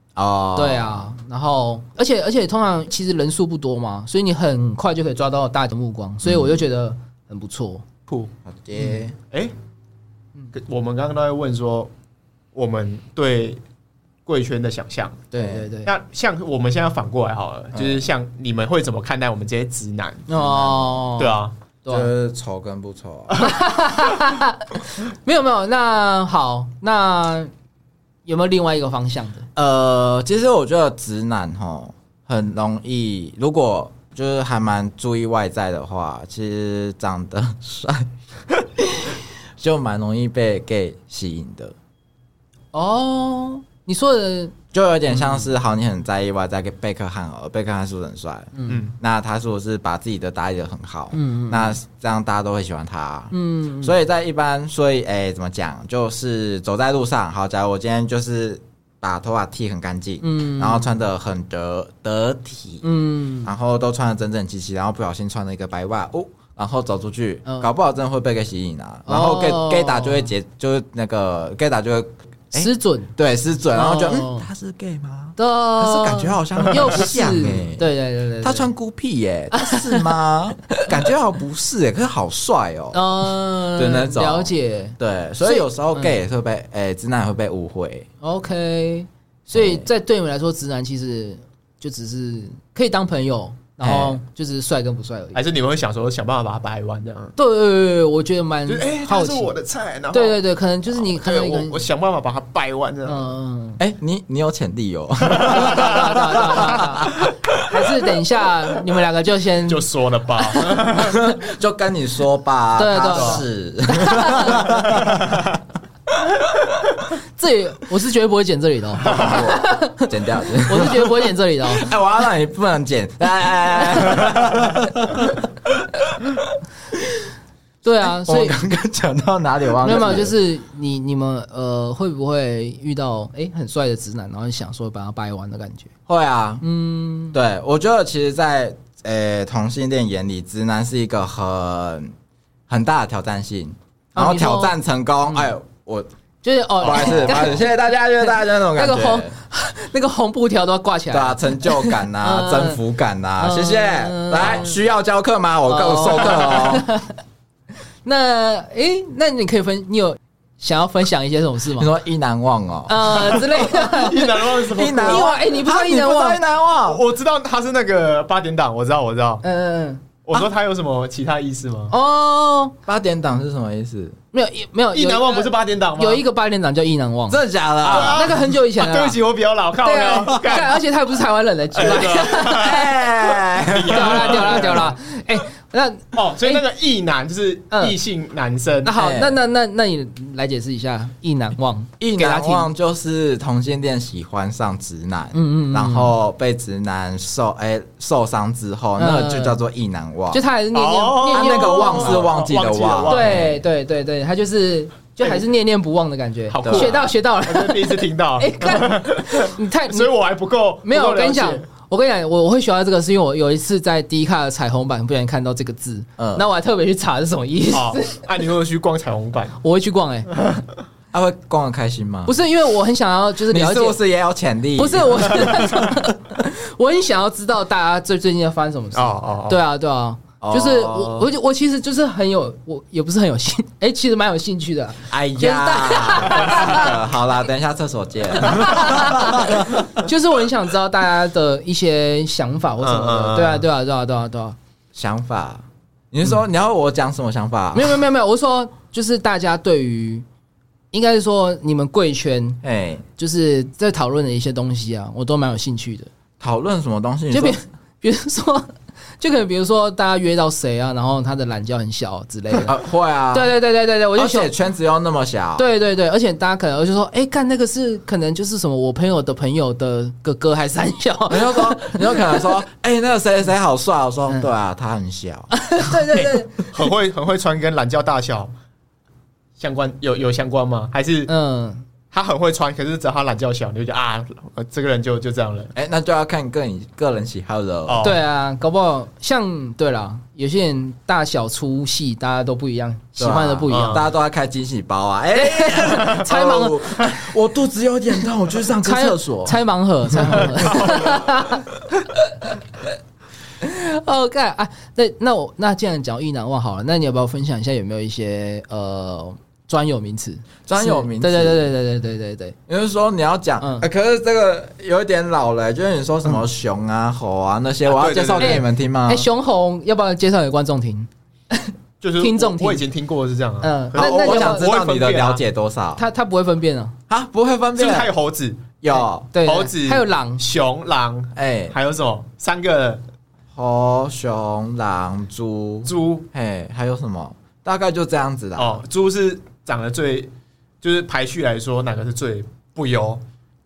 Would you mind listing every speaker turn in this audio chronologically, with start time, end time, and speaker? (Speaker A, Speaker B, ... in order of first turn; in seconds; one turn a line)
Speaker A: 0.1-1.1
Speaker B: 0.5-7.8
Speaker A: 6.2-6.6
Speaker A: 8.4-9.2
Speaker C: 10.5-11.9
Speaker C: 12.5-13.6
Speaker C: 14.2-15.3
Speaker B: 15.3-15.9
Speaker A: 15.3-15.7
Speaker C: 15.8-20.3
Speaker A: 17.7-18.1
Speaker B: 20.3-22.1
Speaker A: 20.3-21.0
Speaker C: 21.2-21.5
Speaker A: 21.9-23.4
Speaker B: 23.4-27.5
Speaker B: 28.2-29.5
Speaker A: 29.6-38.1
Speaker A: 38.6-41.7
Speaker B: 42.7-44.5
Speaker A: 44.7-62.8
Speaker B: 48.5-48.9
Speaker C: 48.7-48.9
Speaker B: 51.1-51.8
Speaker B: 53.3-53.9
Speaker B: 60.2-60.9
Speaker B: 62.8-63.5
Speaker A: 63.4-77.8
Speaker B: 67.5-67.7
Speaker B: 69.1-70.3
Speaker B: 72.5-73.1
Speaker B: 73.7-74.5
Speaker B: 75.4-78.7
Speaker A: 78.4-83.0
Speaker B: 79.5-80.1
Speaker B: 82.9-86.2
Speaker A: 83.7-88.1
Speaker B: 88.2-95.4
Speaker A: 89.5-89.8
Speaker A: 93.8-94.2
Speaker C: 95.3-97.3
Speaker B: 97.3-99.5
Speaker C: 98.7-100.4
Speaker B: 100.1-101.8
Speaker C: 100.9-103.3
Speaker B: 103.0-103.8
Speaker A: 103.8-107.8
Speaker B: 105.4-109.9
Speaker C: 105.4-105.7
Speaker C: 109.7-111.2
Speaker B: 110.5-111.2
Speaker A: 110.9-115.4
Speaker B: 112.8-114.7
Speaker C: 113.0-113.4
Speaker C: 114.9-115.4
Speaker B: 117.3-121.9
Speaker A: 119.0-127.2
Speaker B: 127.8-128.6
Speaker A: 128.0-130.3
Speaker B: 129.8-135.9
Speaker A: 136.1-136.6
Speaker B: 136.6-137.4
Speaker A: 137.3-142.1
Speaker A: 142.7-146.1
Speaker B: 144.1-144.7
Speaker B: 146.4-147.7
Speaker A: 146.8-149.3
Speaker B: 148.2-152.8
Speaker A: 151.1-156.9
Speaker B: 153.4-154.8
Speaker B: 155.7-157.1
Speaker B: 158.0-161.9
Speaker A: 161.7-163.5
Speaker B: 162.9-166.4
Speaker C: 163.6-165.3
Speaker A: 164.7-167.0
Speaker C: 166.8-169.4
Speaker B: 169.4-170.1
Speaker C: 170.2-171.9
Speaker B: 171.9-172.8
Speaker A: 172.8-174.2
Speaker B: 174.3-179.2
Speaker C: 174.9-176.2
Speaker A: 177.3-178.4
Speaker C: 177.8-180.8
Speaker B: 179.8-182.8
Speaker C: 181.7-184.9
Speaker A: 182.2-184.8
Speaker B: 183.9-186.6
Speaker C: 186.1-188.9
Speaker B: 187.7-187.9
Speaker B: 188.8-192.7
Speaker A: 188.9-189.4
Speaker A: 192.0-200.4
Speaker B: 195.3-196.1
Speaker B: 199.0-199.6
Speaker B: 200.3-202.3
Speaker C: 200.7-203.4
Speaker A: 201.3-203.6
Speaker B: 203.0-210.1
Speaker C: 206.5-211.7
Speaker A: 206.6-206.9
Speaker B: 210.8-218.2
Speaker A: 216.2-216.4
Speaker C: 217.7-219.6
Speaker B: 219.6-220.3
Speaker A: 221.1-222.3
Speaker B: 222.2-224.0
Speaker A: 223.5-226.0
Speaker B: 224.8-237.0
Speaker C: 228.9-229.6
Speaker A: 230.4-231.2
Speaker A: 235.1-239.9
Speaker B: 238.4-244.6
Speaker C: 242.8-243.7
Speaker A: 244.9-248.0
Speaker B: 247.7-250.2
Speaker B: 250.9-252.6
Speaker A: 252.6-253.0
Speaker B: 253.2-256.1
Speaker A: 256.4-257.6
Speaker B: 257.3-262.8
Speaker A: 262.6-263.5
Speaker B: 263.3-264.5
Speaker A: 264.1-265.6
Speaker B: 265.6-272.6
Speaker A: 271.3-275.5
Speaker B: 275.5-276.7
Speaker C: 276.1-278.5
Speaker C: 279.6-281.3
Speaker B: 281.3-281.8
Speaker C: 282.1-285.7
Speaker A: 285.7-288.0
Speaker C: 287.9-288.2
Speaker B: 288.0-294.0
Speaker A: 293.2-299.6
Speaker C: 293.7-294.1
Speaker B: 295.3-297.1
Speaker B: 298.8-301.7
Speaker A: 300.1-300.9
Speaker C: 300.7-301.1
Speaker B: 303.6-312.6
Speaker A: 310.7-311.7
Speaker A: 312.7-319.3
Speaker B: 313.6-313.9
Speaker C: 317.9-318.6
Speaker B: 318.4-322.8
Speaker C: 322.0-325.4
Speaker B: 323.6-324.7
Speaker A: 323.9-326.0
Speaker B: 326.0-326.9
Speaker A: 327.1-328.1
Speaker C: 327.7-328.7
Speaker A: 328.8-329.3
Speaker B: 328.9-330.4
Speaker C: 329.4-333.0
Speaker A: 331.3-331.7
Speaker A: 333.5-338.8
Speaker C: 335.9-336.2
Speaker C: 338.6-340.3
Speaker C: 340.8-343.2